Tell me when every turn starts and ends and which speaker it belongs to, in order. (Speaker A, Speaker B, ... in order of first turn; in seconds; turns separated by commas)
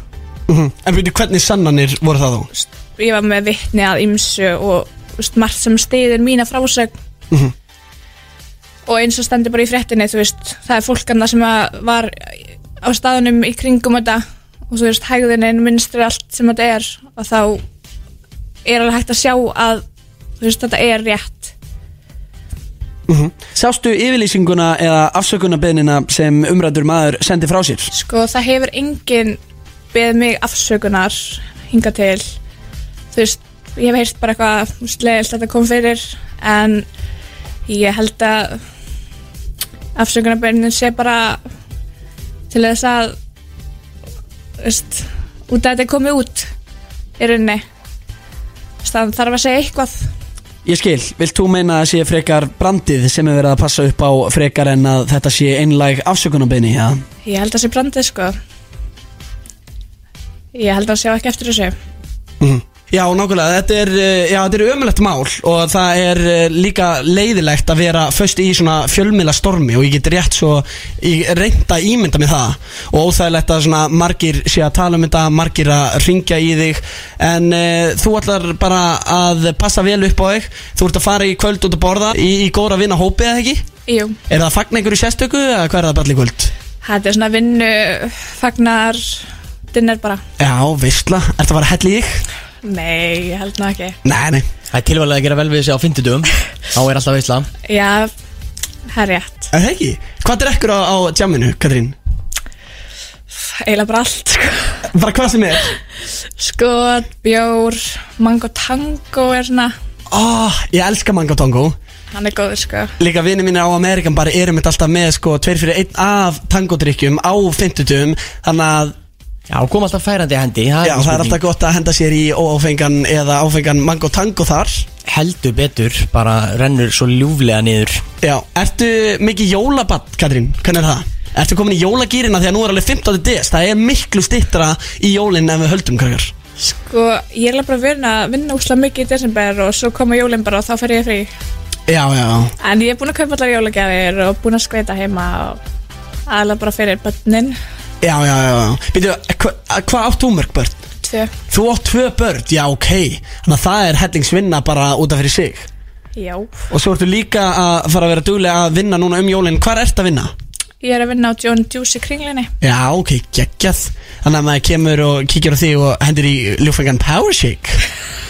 Speaker A: 0.5-2.5, Speaker B: 2.5-6.9, Speaker B: 8.8-17.6, Speaker B: 18.6-19.8, Speaker B: 20.4-21.5, Speaker A: 23.1-27.9, Speaker B: 27.9-29.4, Speaker B: 29.9-32.2, Speaker B: 33.1-36.9, Speaker B: 37.7-38.6, Speaker B: 40.0-41.4, Speaker B: 42.5-43.2, Speaker B: 44.6-46.5, Speaker B: 47.2-47.6, Speaker B: 48.8-50.1, Speaker A: 50.6-57.0, Speaker B: 57.2-58.3, Speaker B: 60.5-61.8, Speaker A: 62.4-83.6, Speaker B: 83.9-84.2, Speaker A: 84.3-86.5, Speaker B: 86.8-90.2, Speaker A: 90.4-92.2, Speaker B: 92.6-94.0, Speaker A: 94.0-94.4, Speaker C: 94.7-97.5, Speaker B: 97.7-98.1, Speaker B: 98.9-99.5, Speaker A: 99.5-101.9, Speaker B: 103.4-104.8, Speaker A: 104.9-105.7, Speaker B: 106.4-109.7, Speaker A: 110.1-111.7, Speaker B: 112.1-112.9, Speaker A: 113.0-119.0, Speaker C: 119.5-121.4, Speaker A: 120.8-124.8, Speaker C: 125.0-128.0, Speaker A: 128.2-136.3, Speaker B: 136.6-141.3, Speaker A: 141.9-142.5, Speaker B: 142.6-145.6, Speaker B: 146.3-147.6, Speaker A: 148.0-150.8, Speaker B: 151.0-151.3, Speaker A: 151.5-155.7, Speaker B: 156.2-156.7, Speaker A: 156.7-160.3, Speaker B: 160.8-162.5, Speaker A: 162.6-167.8